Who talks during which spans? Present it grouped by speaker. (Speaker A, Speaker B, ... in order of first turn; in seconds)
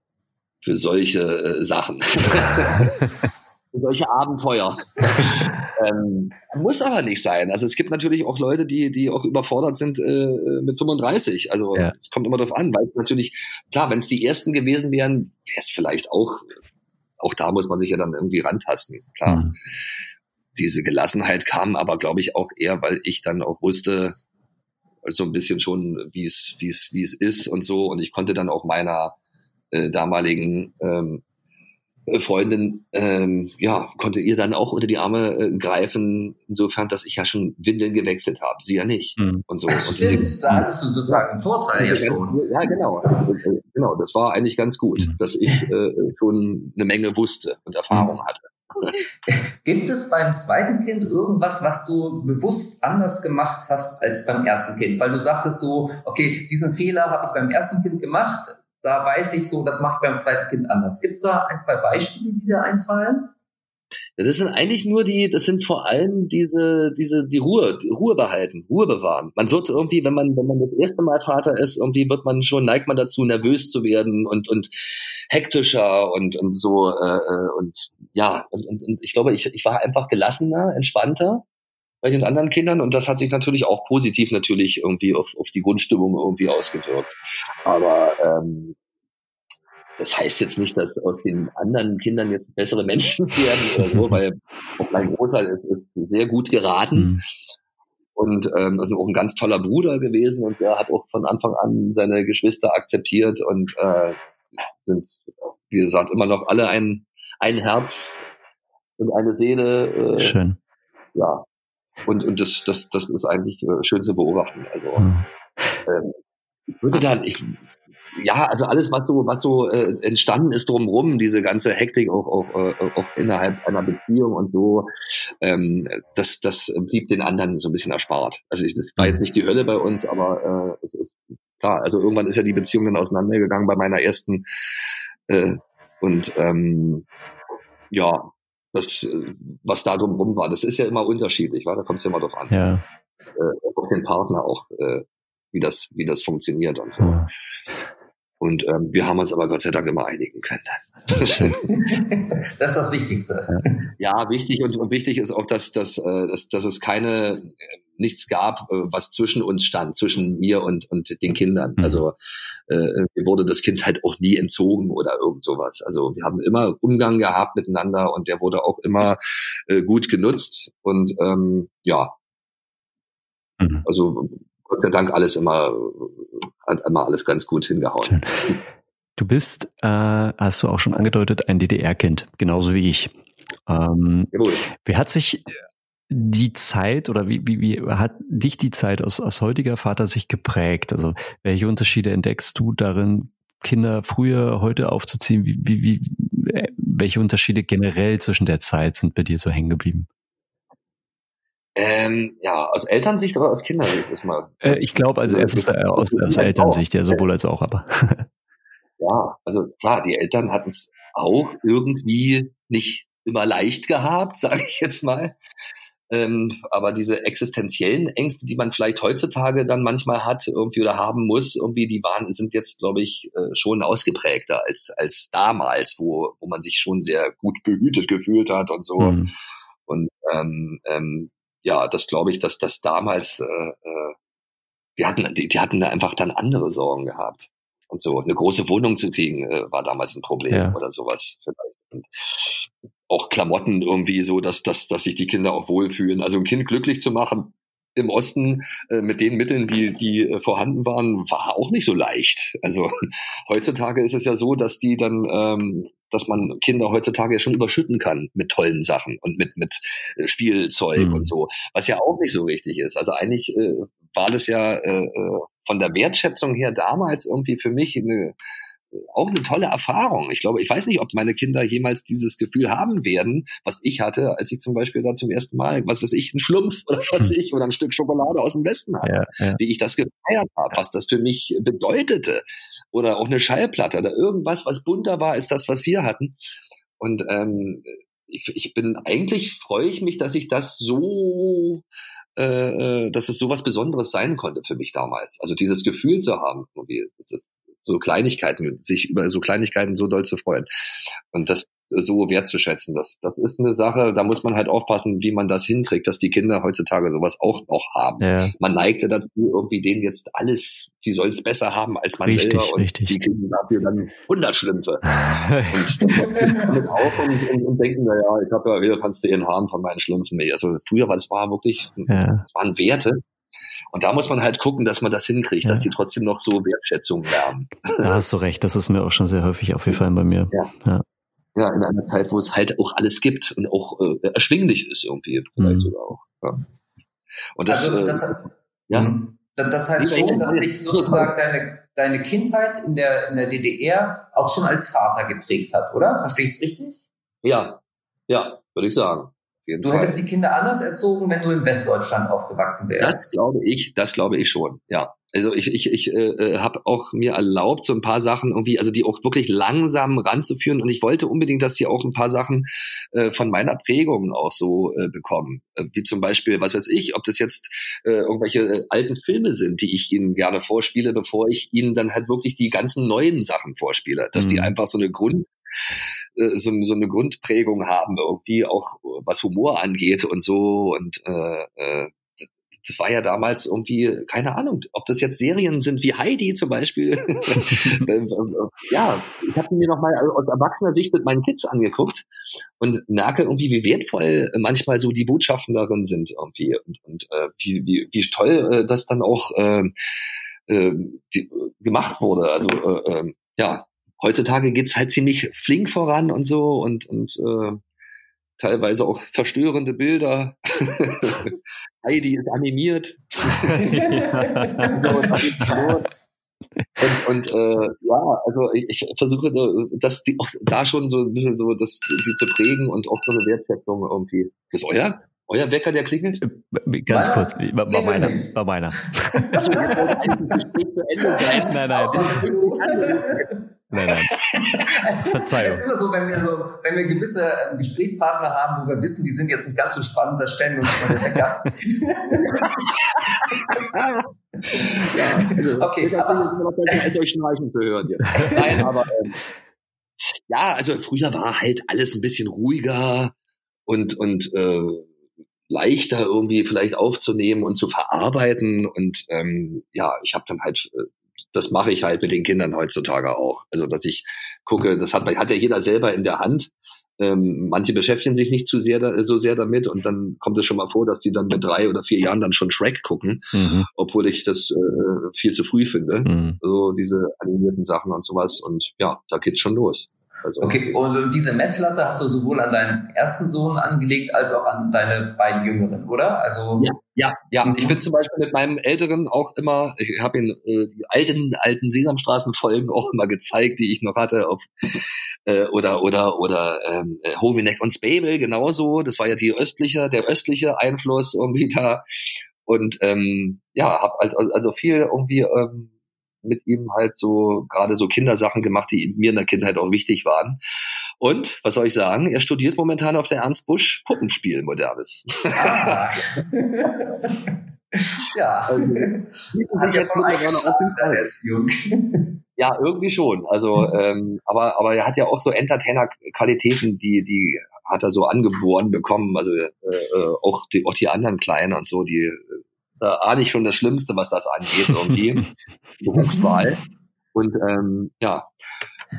Speaker A: 0.6-2.9, 3.7-16.5, 17.2-19.5, 20.5-24.2, 25.0-29.1, 29.7-31.2, 32.1-40.3, 41.1-49.0, 64.2-74.7, 75.3-81.4, 82.0-88.8, 90.0-97.1, 98.2-104.2, 104.8-108.2, 109.0-110.3, 111.1-111.5, 112.0-115.1, 115.8-116.2, 116.8-117.6, 118.1-124.9, 125.4-134.4, 135.3-137.1, 137.9-142.7, 143.3-147.2, 148.4-151.6, 154.0-172.1, 173.8-178.2, 184.3-184.7, 201.8-207.2, 209.0-215.4, 216.1-229.2, 229.8-234.1, 235.0-252.9, 253.5-268.4, 268.9-286.4, 287.0-291.8, 292.4-300.7, 301.3-323.2, 323.9-328.1, 331.5-336.6, 337.6-338.4, 340.0-341.3, 347.4-350.2, 353.0-375.5, 376.4-392.3, 392.8-399.9, 400.7-407.8, 408.6-413.8, 414.9-416.1, 417.0-426.4, 429.5-433.5, 442.4-449.4, 450.5-453.3, 453.9-455.1, 455.7-480.8, 486.8-502.0, 502.6-505.9, 506.4-510.6, 511.2-516.0, 518.7-521.2, 522.6-535.5, 536.0-536.8, 537.3-538.5
Speaker B: 19.2-19.5, 39.2-39.4, 40.0-40.6, 96.9-97.2, 110.2-110.6, 115.0-115.8, 142.5-142.8, 147.0-147.3, 151.2-151.5, 161.8-162.0, 173.6-173.8, 178.0-178.6, 179.2-183.1, 183.7-185.4, 186.1-200.1, 204.6-208.3, 229.0-229.3, 240.5-240.8, 261.0-261.3, 279.0-279.6, 308.2-308.5, 312.2-313.1, 315.1-316.6, 322.1-322.4, 328.0-331.0, 335.6-335.9, 374.4-374.7, 413.7-415.9, 426.4-430.2, 431.3-432.5, 433.9-434.5, 435.1-435.9, 473.5-473.9, 476.2-476.6
Speaker C: 39.7-42.4, 49.3-63.3, 151.6-153.8, 316.2-316.8, 337.7-347.0, 349.8-353.3, 413.8-416.0, 427.1-428.5, 429.4-430.3, 431.4-433.6, 434.7-442.7, 444.7-447.0, 448.3-448.9, 480.6-486.9, 487.6-488.0, 515.5-522.4, 536.2-536.6